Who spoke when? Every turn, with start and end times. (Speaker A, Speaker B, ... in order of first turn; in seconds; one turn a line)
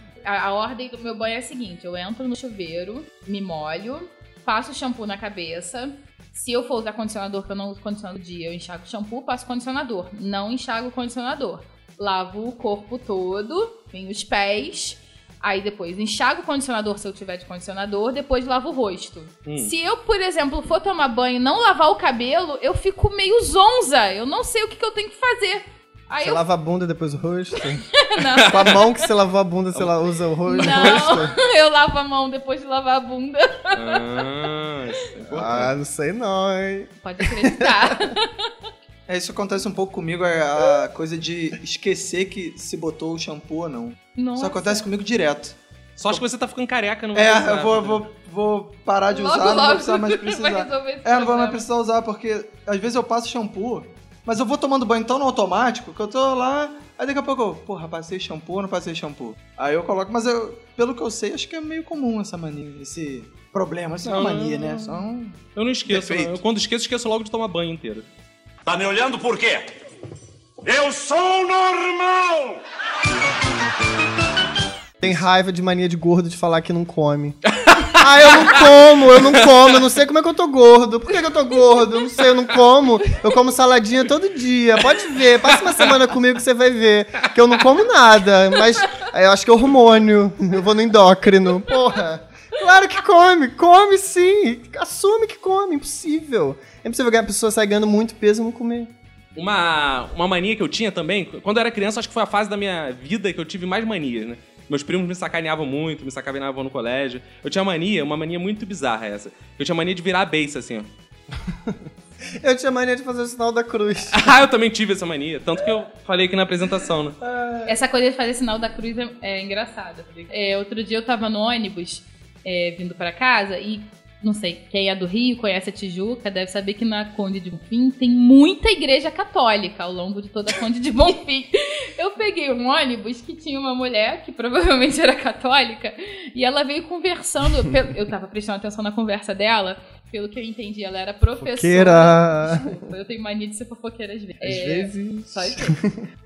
Speaker A: 0.2-26.4
Speaker B: 19.4-19.7
Speaker C: 26.2-27.8
Speaker A: 27.9-28.8
Speaker B: 28.4-28.8
Speaker C: 28.4-31.3
Speaker A: 30.5-34.0
Speaker B: 30.6-31.2
Speaker B: 33.7-35.7
Speaker C: 35.3-38.1
Speaker A: 37.0-38.5
Speaker D: 39.1-45.6
Speaker A: 44.1-44.9
Speaker B: 46.0-48.0
Speaker D: 47.1-66.4
Speaker A: 49.1-51.6
Speaker B: 64.0-65.0
Speaker B: 65.5-68.1
Speaker E: 68.6-69.7
Speaker E: 70.6-72.6
Speaker C: 75.0-98.9
Speaker B: 77.5-78.7
Speaker B: 85.6-86.0
Speaker B: 99.3-110.9
Speaker C: 112.4-114.3
Speaker B: 114.1-117.2
Speaker C: 117.2-117.7
Speaker A: 117.7-145.8
Speaker C: 141.4-142.8
Speaker C: 144.4-146.0